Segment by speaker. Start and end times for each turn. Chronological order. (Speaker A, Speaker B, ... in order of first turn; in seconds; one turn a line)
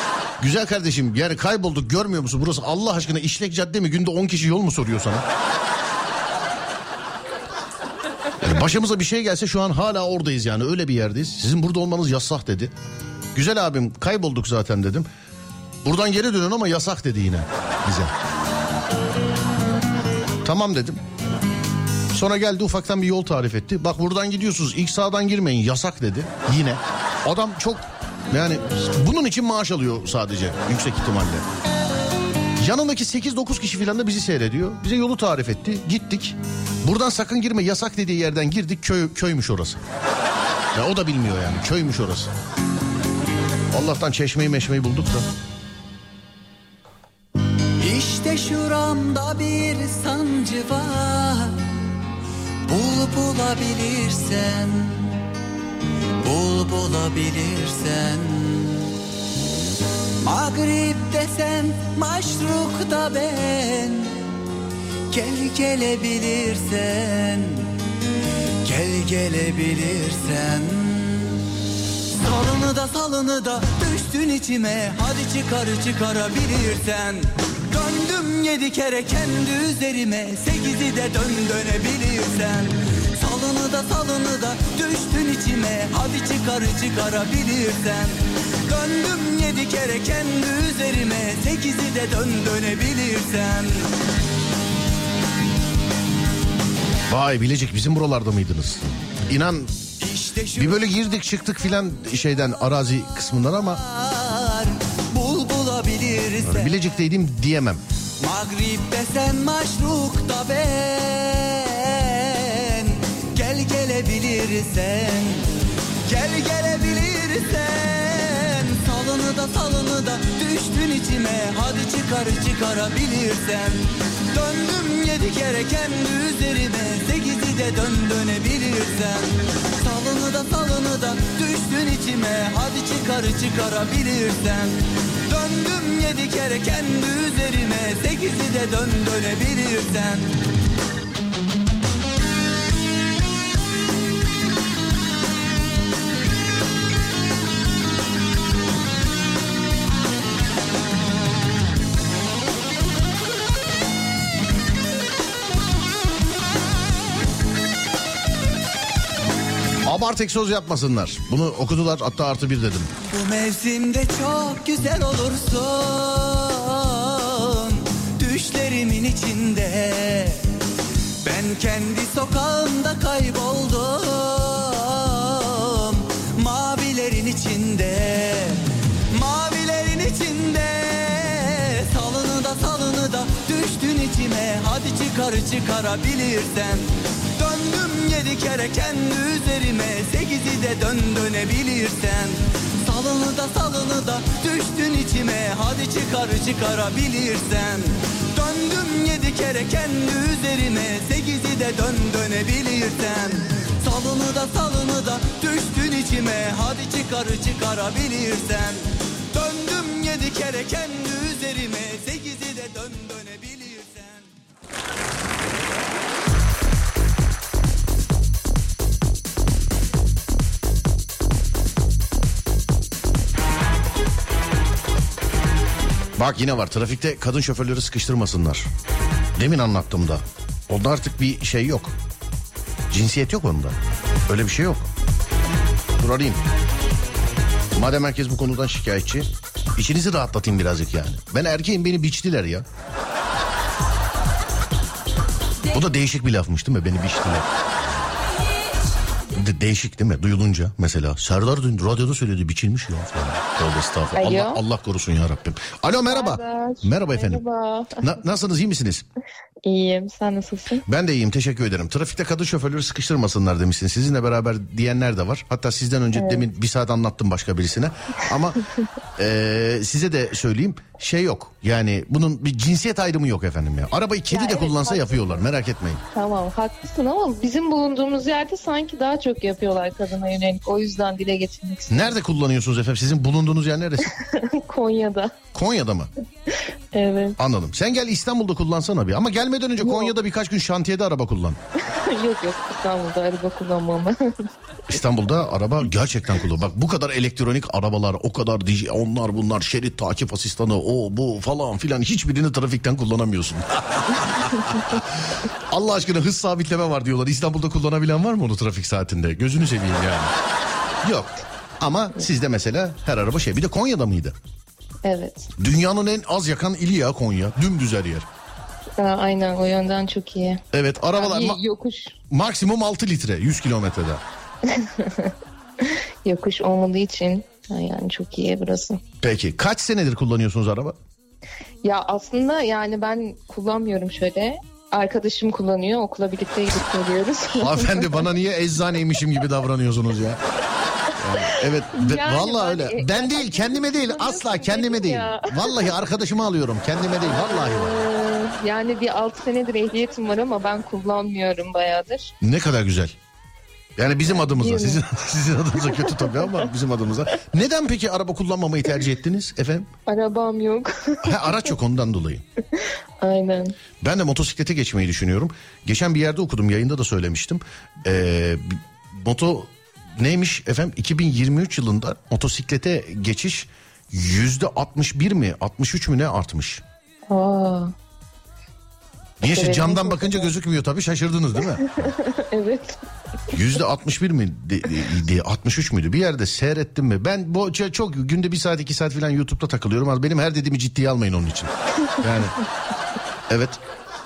Speaker A: 0.4-5.2
Speaker A: 8.4-12.7
Speaker A: 13.3-15.1
Speaker A: 15.8-18.1
Speaker A: 20.4-21.0
Speaker A: 22.1-31.4
Speaker A: 32.6-39.8
Speaker A: 40.7-42.3
Speaker A: 43.7-45.3
Speaker B: 47.8-51.6
Speaker B: 52.7-55.1
Speaker B: 56.2-58.8
Speaker B: 60.2-64.1
Speaker B: 65.1-67.7
Speaker B: 68.6-71.4
Speaker B: 72.1-88.1
Speaker B: 88.7-93.9
Speaker A: 97.1-99.8
Speaker B: 100.0-100.8
Speaker A: 100.5-103.8
Speaker B: 103.8-106.7
Speaker A: 106.4-107.8
Speaker B: 108.2-115.5
Speaker B: 116.1-134.7
Speaker B: 135.3-140.3
Speaker A: 159.8-162.9
Speaker B: 163.1-170.4
Speaker B: 171.2-186.8
Speaker B: 187.4-214.3
Speaker A: 226.2-228.7
Speaker A: 229.3-231.9
Speaker A: 232.9-233.8
Speaker A: 234.3-234.9
Speaker A: 236.0-236.4
Speaker A: 237.7-242.7
Speaker A: 245.7-248.1
Speaker A: 249.3-257.4
Speaker C: 254.1-254.6
Speaker C: 255.9-258.1
Speaker A: 258.0-259.0
Speaker C: 259.6-260.8
Speaker A: 260.9-268.6
Speaker C: 266.1-266.4
Speaker A: 269.2-276.0
Speaker C: 274.3-275.4
Speaker C: 276.1-282.2
Speaker A: 281.9-284.1
Speaker C: 284.1-285.3
Speaker A: 285.5-286.1
Speaker C: 286.9-287.4
Speaker A: 287.4-291.6
Speaker C: 289.8-290.1
Speaker C: 291.9-294.3
Speaker A: 294.9-310.3
Speaker A: 311.0-314.3
Speaker C: 315.0-315.5
Speaker A: 315.6-318.3
Speaker C: 319.0-320.6
Speaker A: 320.7-321.6
Speaker C: 321.1-322.2
Speaker A: 322.3-324.2
Speaker C: 324.7-325.3
Speaker C: 326.2-329.0
Speaker A: 329.2-330.9
Speaker C: 331.8-338.2
Speaker A: 337.5-340.4
Speaker A: 341.2-348.1
Speaker C: 341.9-346.0
Speaker C: 347.2-352.3
Speaker A: 352.4-353.2
Speaker A: 354.0-359.9
Speaker C: 354.3-355.0
Speaker C: 355.8-356.7
Speaker C: 360.1-361.7
Speaker A: 361.2-362.4
Speaker C: 363.2-363.8
Speaker A: 364.0-376.8
Speaker C: 377.3-377.9
Speaker A: 379.4-382.1
Speaker C: 379.5-380.5
Speaker C: 381.6-383.0
Speaker A: 383.5-392.5
Speaker A: 393.5-393.8